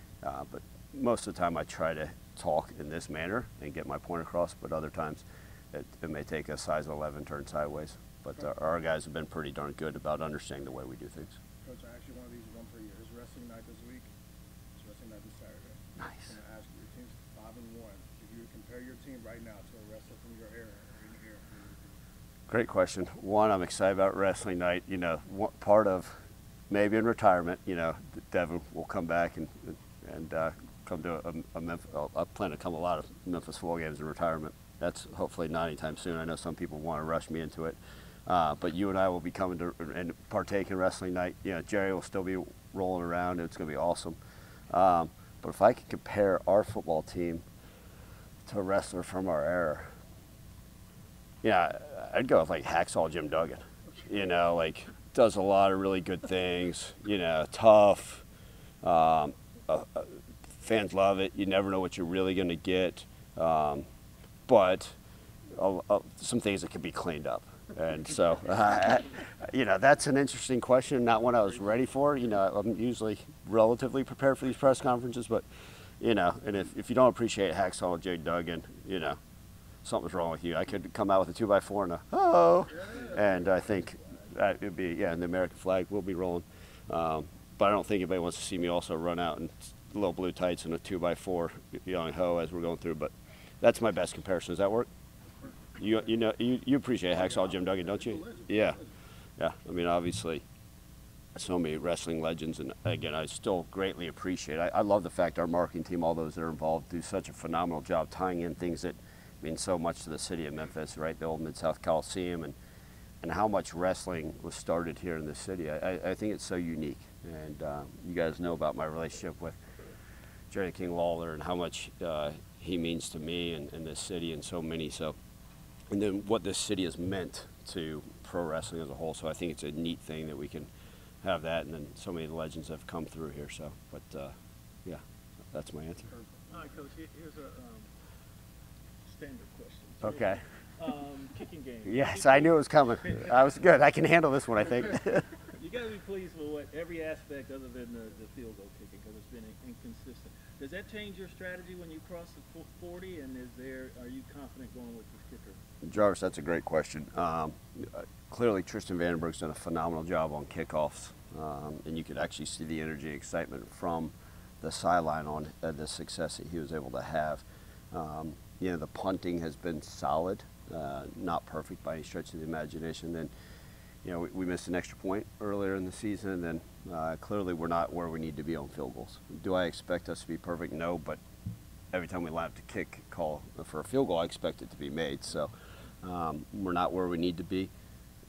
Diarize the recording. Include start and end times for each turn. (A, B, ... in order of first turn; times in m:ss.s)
0:00.2-0:11.4 A
0:11.6-0:14.1 B
0:14.8-0:21.9 B
0:16.0-0:16.3 A
0:22.5-0:26.2 A
0:26.7-0:44.2 A
0:44.7-0:47.4 A
0:48.5-0:49.9 A
0:51.4-0:58.2 A
0:58.8-1:03.9 A
1:04.5-1:05.0 A
1:05.6-1:15.5 A
1:16.0-1:19.2 A
1:19.8-1:34.9 A
1:35.8-1:38.8 A
1:37.2-1:38.8 B
1:39.4-1:40.4 A
1:41.4-1:52.6 A
1:53.2-1:59.6 A
2:00.5-2:05.2 A
2:05.9-2:10.7 A
2:11.2-2:16.1 A
2:16.1-2:16.7 B
2:16.5-2:17.9 C
2:19.1-2:23.4 C
2:20.0-2:20.4 A
2:20.0-2:20.3 B
2:21.8-2:25.4 A
2:25.6-2:35.6 C
2:35.8-2:53.3 A
2:54.0-3:01.2 A
3:01.9-3:07.7 A